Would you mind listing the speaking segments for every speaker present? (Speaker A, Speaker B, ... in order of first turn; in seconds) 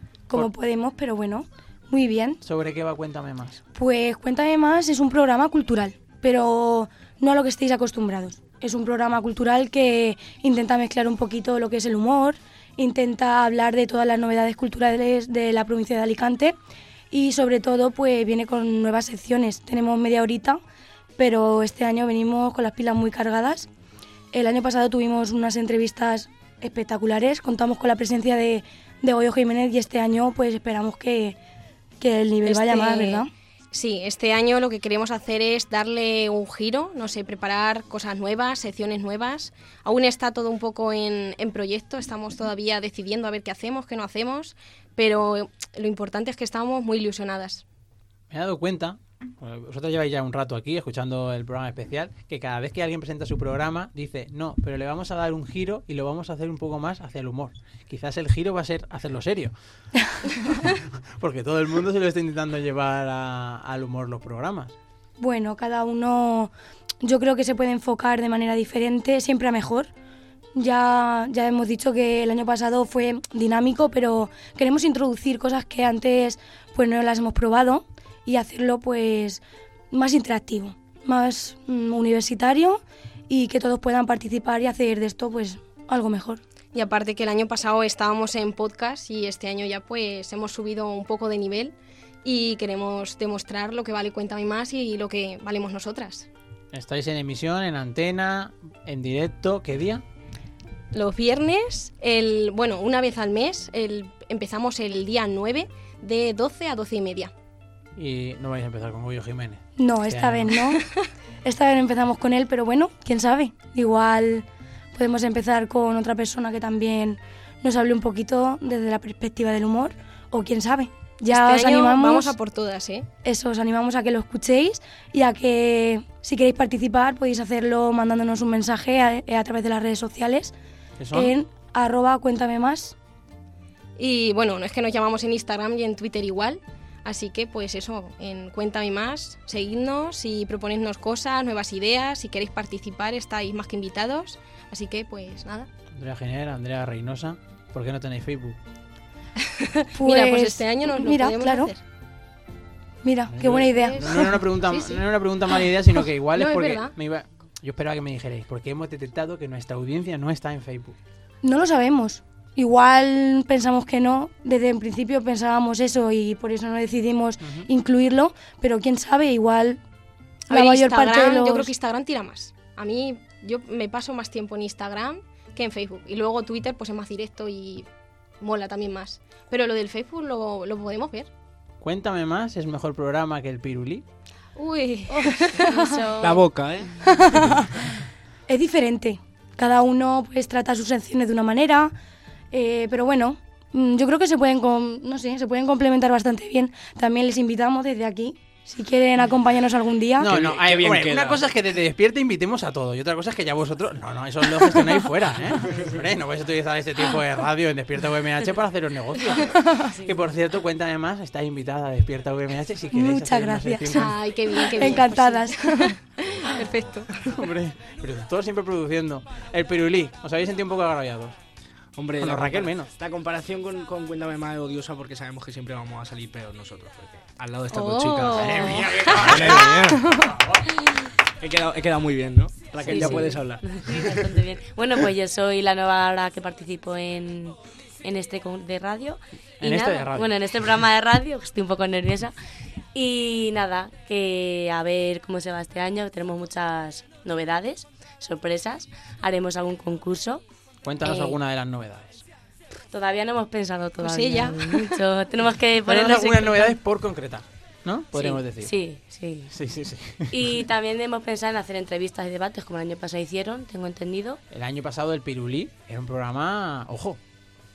Speaker A: 0.3-2.4, 3.7-16.6, 17.1-20.6, 21.2-23.7, 24.3-31.4, 32.0-33.3, 65.2-66.5, 67.0-69.9, 70.6-79.4, 79.9-86.4, 109.8-110.8, 111.5-122.4, 123.2-130.5, 131.1-132.9, 149.9-151.7, 153.0-154.3, 161.4-169.8, 170.5-171.7, 188.5-191.9, 192.5-200.4, 212.9-215.9
Speaker B: 2.4-3.6, 48.3-59.5, 61.2-64.7, 96.7-100.0, 108.0-110.5, 131.0-131.3, 145.9-148.6, 153.4-160.9, 167.4-167.7, 181.8-184.0, 200.2-214.1, 217.3-221.4, 222.2-222.9, 228.3-229.7, 232.8-233.3, 239.6-240.3, 250.8-252.2, 255.9-258.7, 259.5-260.3, 264.5-267.2
Speaker C: 32.4-47.6, 86.7-96.3, 100.9-107.3, 121.3-123.1, 134.0-145.7, 149.8-151.8, 153.4-155.1, 156.3-156.9, 170.5-177.9, 178.4-181.3, 184.6-185.9, 213.9-215.8, 254.0-254.8
Speaker D: 185.6-186.5, 227.8-228.8, 232.8-242.3, 242.9-250.4, 251.0-251.4, 252.9-256.8, 258.1-259.5, 260.3-264.4
Speaker E: 186.2-186.9, 200.3-201.4, 222.0-228.6, 229.2-230.0, 231.4-233.7